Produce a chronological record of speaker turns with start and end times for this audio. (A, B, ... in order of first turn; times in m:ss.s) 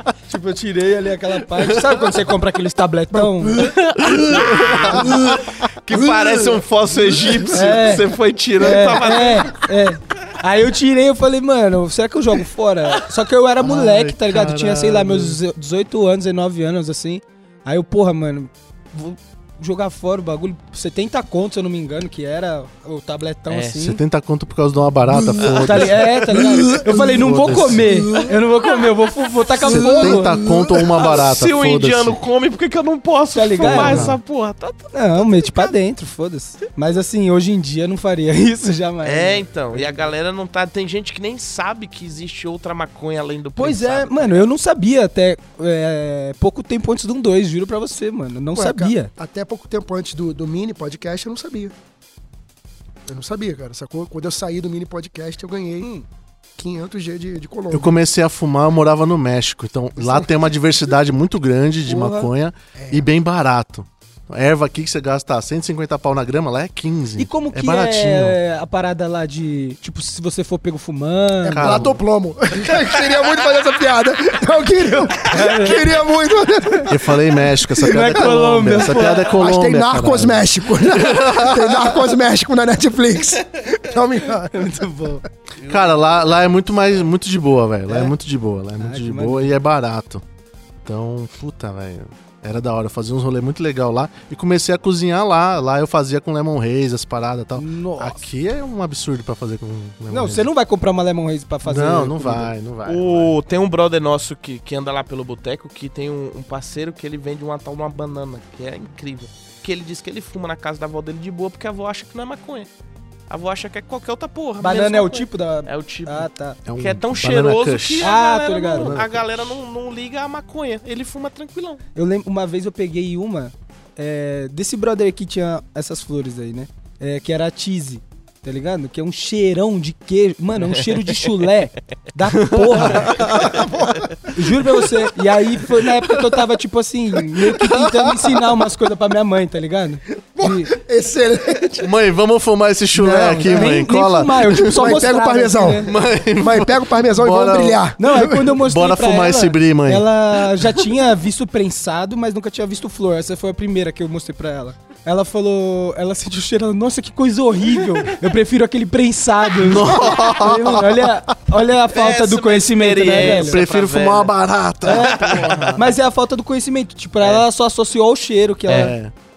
0:00.3-0:03.6 A
0:03.1-0:05.4 B
0:03.6-0:09.7 C
0:04.1-0:05.4 D
0:05.9-0:07.6 B
0:07.5-0:24.0 A
0:13.6-0:15.4 D
0:23.5-0:23.8 C
0:23.8-0:27.9 D
0:25.1-0:28.3 B
0:25.5-0:30.4 A
0:29.6-0:32.2 D
0:29.7-0:31.1 B
0:30.9-0:35.7 C
0:33.4-0:34.2 A
0:33.6-0:34.2 D
0:34.9-0:40.1 A
0:39.0-0:44.4 C
0:43.6-0:49.1 A
0:48.6-0:51.7 B
0:53.1-0:55.9 B
0:56.6-0:58.0 B
0:57.7-1:08.4 D
1:00.0-1:00.3 B
1:01.9-1:02.3 A
1:02.8-1:03.1 B
1:07.2-1:11.9 A
1:11.4-1:18.4 B
1:11.6-1:12.0 D
1:15.3-1:16.0 A
1:16.9-1:22.1 D
1:17.8-1:19.3 A
1:18.9-1:24.8 B
1:24.5-1:25.3 A
1:25.6-1:26.8 C
1:25.6-1:30.2 D
1:27.9-1:28.1 A
1:28.8-1:29.5 A
1:30.8-1:40.5 D
1:37.6-1:38.2 A
1:40.1-1:42.5 A
1:41.6-1:43.3 D
1:42.8-1:52.7 C
1:53.3-2:01.8 C
1:54.6-1:56.6 A
1:56.7-1:58.1 D
1:58.0-1:59.0 A
1:58.7-1:59.6 D
2:02.0-2:13.6 A
2:10.6-2:11.3 C
2:12.4-2:13.3 C
2:12.9-2:13.5 D
2:13.1-2:14.6 B
2:14.3-2:20.7 A
2:17.6-2:18.1 D
2:20.4-2:21.9 B
2:21.8-2:25.1 D
2:23.0-2:25.9 A
2:23.0-2:23.8 B
2:24.6-2:28.5 B
2:25.8-2:27.8 D
2:28.0-2:43.6 A
2:28.6-2:30.1 D
2:39.6-2:41.1 D
2:41.9-2:44.3 C
2:43.2-2:45.8 D
2:44.8-2:49.0 A
2:44.9-2:45.7 C
2:44.9-2:45.8 B
2:48.7-2:48.9 C
2:48.7-2:49.1 D